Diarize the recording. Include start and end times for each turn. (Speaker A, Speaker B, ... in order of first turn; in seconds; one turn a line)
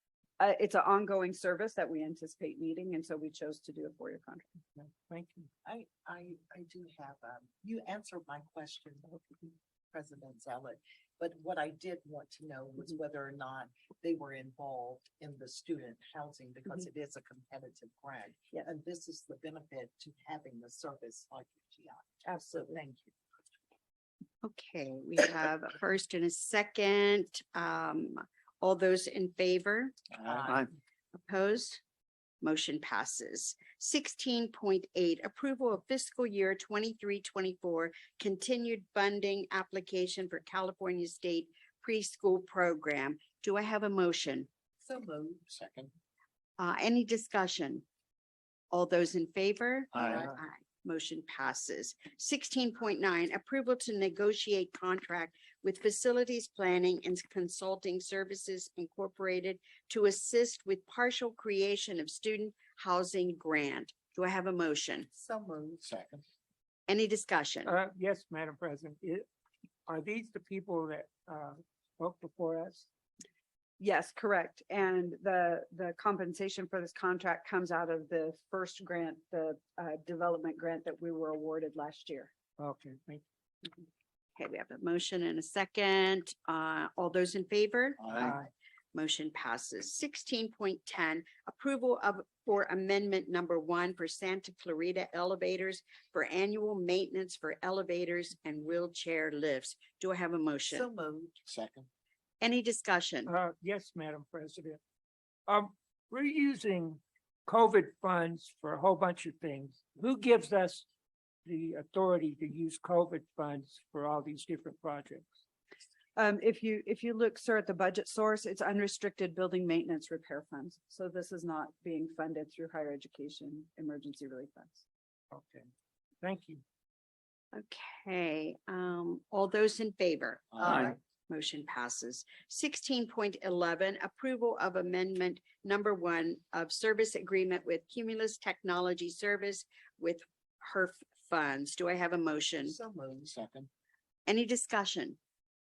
Speaker A: 0.4-4.6
Speaker B: 4.8-5.5
Speaker C: 5.6-9.2
Speaker C: 9.9-23.1
Speaker A: 22.2-22.8
Speaker D: 24.4-30.0
Speaker C: 30.2-30.7
Speaker D: 31.1-31.8
Speaker D: 32.4-44.5
Speaker C: 44.8-45.5
Speaker E: 45.5-45.9
Speaker D: 46.6-47.8
Speaker D: 48.7-65.1
Speaker C: 50.0-50.3
Speaker C: 65.1-65.8
Speaker E: 65.8-66.2
Speaker D: 66.9-67.7
Speaker B: 67.7-69.2
Speaker B: 69.9-72.8
Speaker A: 73.8-82.3
Speaker B: 82.6-83.2
Speaker D: 84.4-88.3
Speaker E: 88.0-88.3
Speaker B: 88.2-88.5
Speaker D: 88.9-100.9
Speaker C: 100.7-101.5
Speaker E: 101.5-101.9
Speaker D: 102.4-103.3
Speaker B: 103.3-104.8
Speaker B: 105.5-110.8
Speaker B: 111.5-115.3
Speaker A: 116.2-124.8
Speaker B: 125.3-125.7
Speaker B: 126.2-126.6
Speaker D: 127.5-142.8
Speaker E: 130.6-130.8
Speaker C: 130.6-130.9
Speaker C: 142.6-143.3
Speaker E: 143.2-143.7
Speaker D: 144.2-145.2